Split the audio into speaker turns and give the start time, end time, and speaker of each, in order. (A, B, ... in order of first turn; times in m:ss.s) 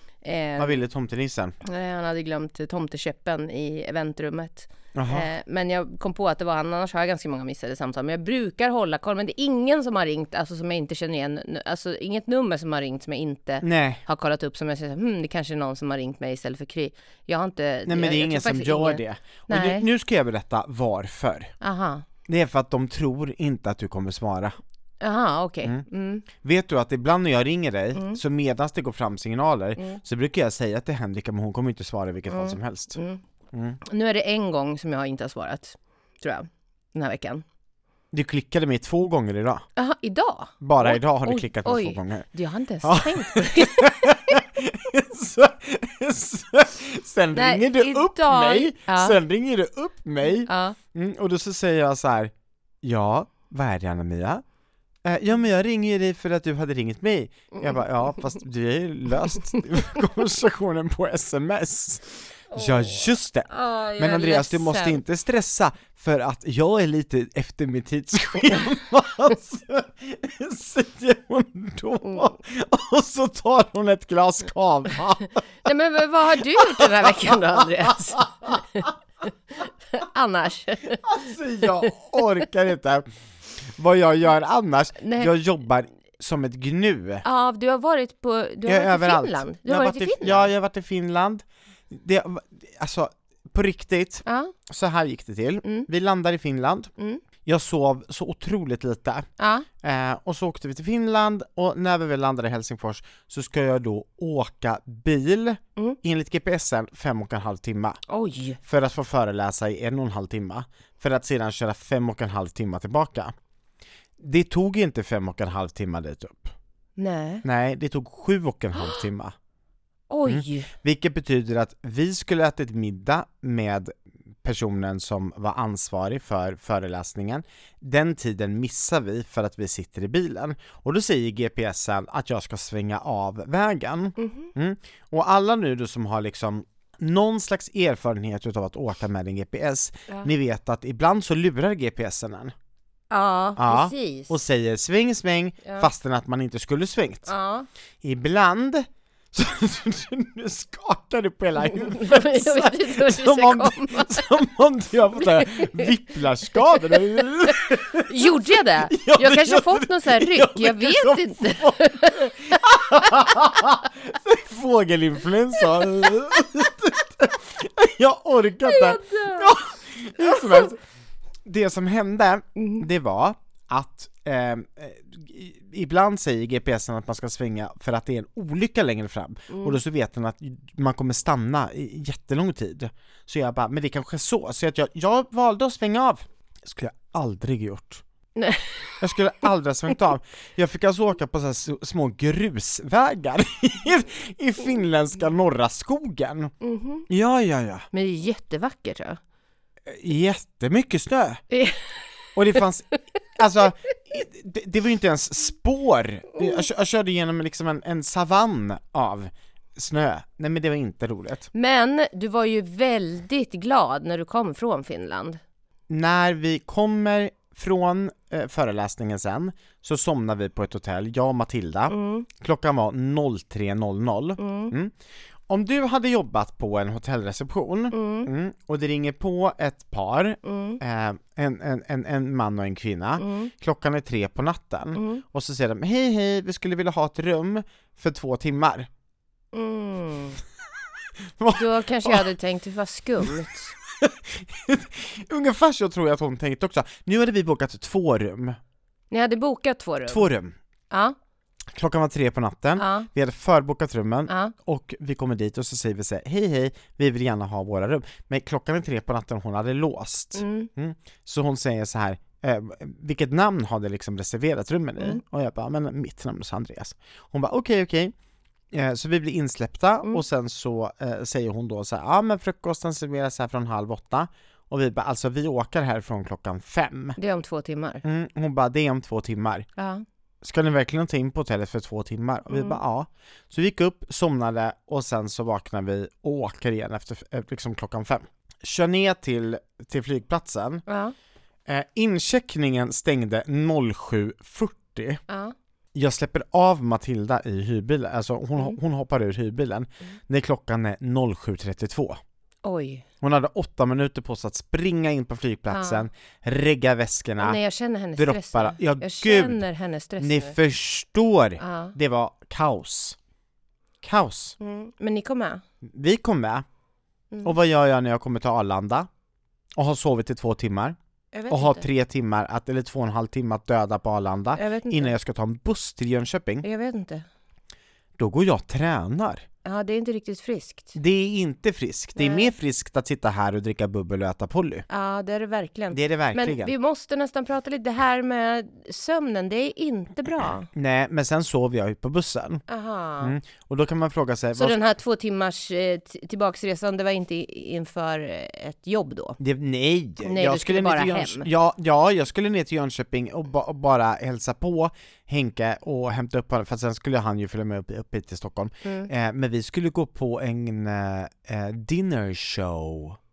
0:00.2-0:00.8 A
0:00.6-0:01.6 B
0:01.6-0:19.8 A
0:04.9-0:05.2 B
0:13.6-0:14.0 B
0:17.8-0:21.5 B
0:21.6-0:22.0 A
0:22.3-0:24.6 B
0:25.0-0:26.2 A
0:25.6-0:33.0 B
0:27.9-0:28.2 A
0:32.3-0:33.2 A
0:33.5-0:33.8 B
0:33.8-0:37.4 A
0:38.1-0:39.6 B
0:39.8-0:44.1 A
0:40.6-0:42.2 B
0:42.8-0:54.4 B
0:47.3-0:49.2 A
0:50.2-0:50.8 A
0:55.0-1:15.3 B
0:57.6-0:58.3 A
1:02.5-1:05.0 A
1:12.0-1:12.3 A
1:15.6-1:18.8 A
1:16.6-1:18.9 B
1:19.9-1:21.0 A
1:21.0-1:23.1 B
1:23.6-1:27.2 B
1:25.0-1:25.3 A
1:27.2-1:30.5 A
1:28.6-1:36.9 B
1:34.2-1:34.5 A
1:37.0-1:37.2 A
1:37.4-1:39.3 B
1:39.4-1:39.7 A
1:39.8-1:48.0 B
1:48.1-1:48.6 A
1:48.6-1:53.3 B
1:54.2-1:56.5 B
1:57.0-1:57.4 A
1:57.4-1:59.3 B
2:00.1-2:00.7 A
2:00.2-2:22.5 B
2:14.2-2:14.5 A
2:23.1-2:24.3 A
2:23.6-2:27.3 B
2:27.3-2:27.7 A
2:28.0-2:50.8 B
2:31.7-2:34.3 A
2:35.1-2:35.9 A
2:36.6-2:43.3 A
2:48.6-2:49.5 A
2:50.2-2:50.6 A
2:51.4-3:08.0 B
2:52.6-2:52.8 A
2:59.5-2:59.8 A
3:08.4-3:09.0 A
3:09.0-3:16.5 B
3:16.6-3:17.0 A
3:17.1-3:17.8 B
3:17.9-3:19.2 A
3:19.9-3:21.4 B
3:21.5-3:21.8 A
3:22.3-3:31.5 B
3:31.5-3:35.4 A
3:35.9-3:44.9 B
3:41.9-3:42.3 A
3:44.4-3:44.7 A
3:45.5-3:58.9 B
3:47.9-3:48.3 A
3:50.4-3:50.8 A
3:53.2-3:53.5 A
3:54.9-3:55.2 A
3:59.5-4:00.4 A
4:01.4-4:02.3 B
4:01.5-4:03.7 A
4:03.9-4:08.6 B
4:09.1-4:10.2 A
4:10.0-4:10.6 B
4:10.9-4:11.2 A
4:11.7-4:28.1 B
4:12.8-4:13.1 A
4:14.3-4:14.5 A
4:20.3-4:20.7 A
4:28.7-4:37.2 B
4:37.2-4:38.0 A
4:38.0-4:39.7 B
4:39.8-4:40.0 A
4:40.4-4:50.8 B
4:42.5-4:42.8 A
4:50.8-4:51.1 A
4:51.7-4:55.2 B
4:55.3-4:55.5 A
4:55.9-5:02.2 B
5:02.6-5:03.0 A
5:03.2-5:07.6 B
5:05.7-5:06.1 A
5:07.4-5:10.6 A
5:08.2-5:09.6 B
5:10.2-5:13.2 B
5:11.6-5:11.9 A
5:14.0-5:14.6 B
5:14.6-5:15.6 A
5:15.9-5:16.6 B
5:17.4-5:19.1 B
5:19.8-5:21.0 B
5:21.3-5:21.9 A
5:21.5-5:26.6 B
5:24.6-5:25.1 A
5:26.6-5:27.2 A
5:28.2-5:29.4 B
5:29.6-5:30.9 A
5:30.9-5:34.8 B
5:32.2-5:32.5 A
5:34.9-5:40.7 A
5:35.9-5:36.7 B
5:40.7-5:42.6 B
5:42.7-5:43.3 A
5:43.2-5:44.8 B
5:44.6-5:49.4 A
5:49.4-6:03.2 B
5:50.2-5:51.5 A
5:58.8-5:59.1 A